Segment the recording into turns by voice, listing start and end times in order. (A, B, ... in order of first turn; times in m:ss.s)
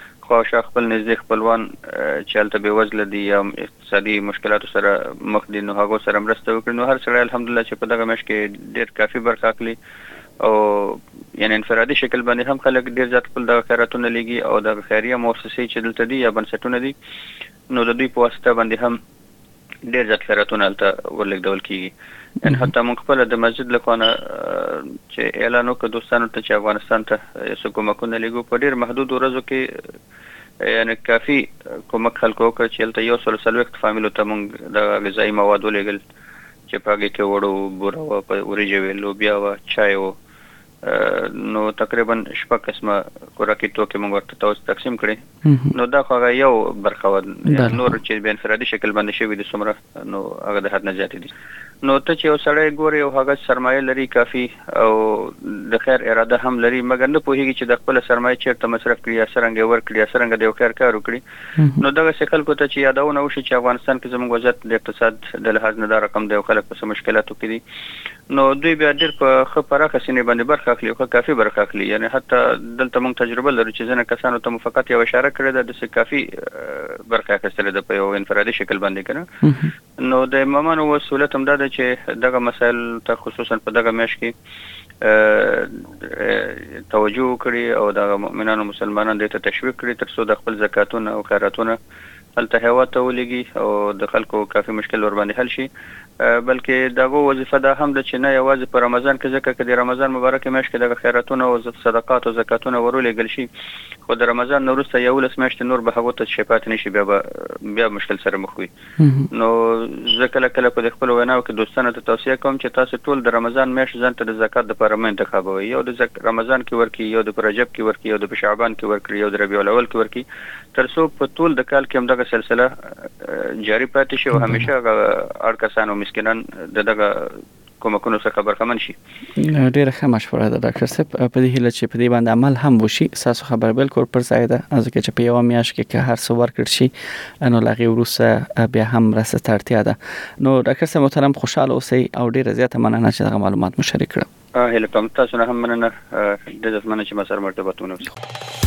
0:00.2-0:09.8 A
0:10.4-0:16.9 A
0:17.7-0:19.0 A
0:19.9-0:29.7 A
0:22.4-0:22.7 B
0:30.6-0:36.0 A
0:36.7-0:40.1 A
0:40.8-0:45.2 A
0:45.4-0:45.7 B
0:45.7-0:51.3 A
0:47.5-0:47.9 B
0:51.8-1:01.2 A
1:01.8-1:07.6 A
1:08.3-1:19.3 A
1:19.4-1:19.7 B
1:20.0-1:24.3 A
1:25.0-1:31.8 A
1:32.4-1:35.7 A
1:36.2-1:43.5 A
1:44.1-1:48.7 A
1:49.0-1:49.3 B
1:49.3-2:09.0 A
2:04.3-2:04.7 B
2:09.4-2:16.9 B
2:17.4-2:24.3 B
2:24.6-2:28.1 A